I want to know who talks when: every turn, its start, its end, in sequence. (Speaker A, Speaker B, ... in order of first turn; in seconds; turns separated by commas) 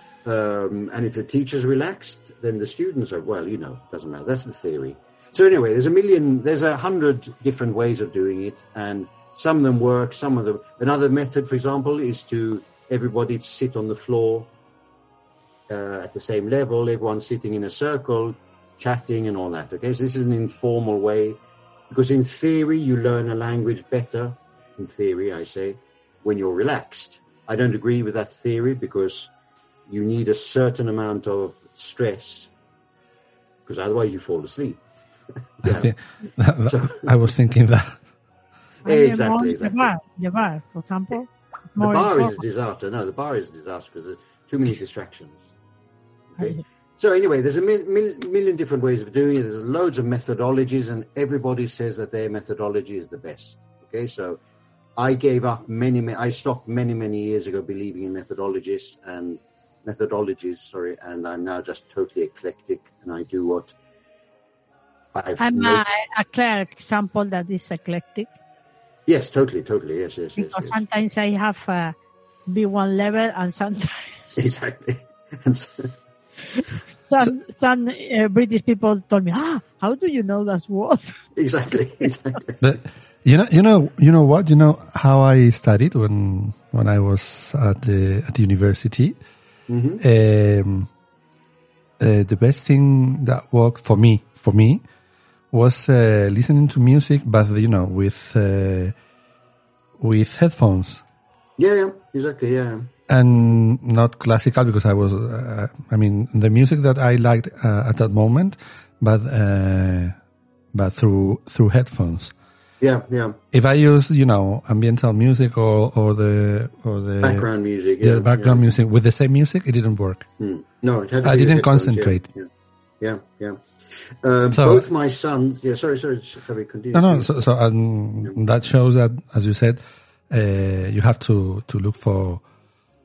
Speaker A: 0.2-14.5, Speaker A: 15.7-21.4, Speaker A: 21.9-29.3, Speaker A: 29.9-32.5, Speaker A: 33.7-34.8, Speaker A: 35.6-35.9, Speaker B: 35.6-38.0, Speaker A: 36.6-37.1, Speaker A: 38.9-39.9, Speaker C: 38.9-42.4, Speaker A: 41.8-45.4, Speaker A: 46.3-54.4, Speaker A: 55.0-63.7, Speaker A: 65.1-65.8, Speaker C: 65.4-68.3, Speaker A: 69.1-70.8, Speaker C: 70.4-72.0, Speaker C: 72.5-74.4, Speaker A: 74.4-75.9, Speaker C: 76.6-81.2, Speaker A: 81.4-82.6, Speaker B: 82.6-89.2, Speaker A: 89.7-90.0, Speaker B: 90.0-90.9, Speaker B: 92.0-94.8, Speaker B: 95.5-98.9, Speaker B: 100.0-101.0, Speaker A: 101.6-102.9, Speaker B: 103.1-110.2, Speaker B: 110.7-112.3, Speaker A: 112.8-113.4, Speaker B: 113.5-117.5, Speaker A: 117.2-118.7, Speaker B: 118.0-120.3, Speaker A: 120.4-122.5, Speaker B: 121.2-122.2, Speaker A: 123.0-123.6, Speaker A: 124.2-127.4, Speaker B: 124.5-124.9, Speaker B: 126.9-132.4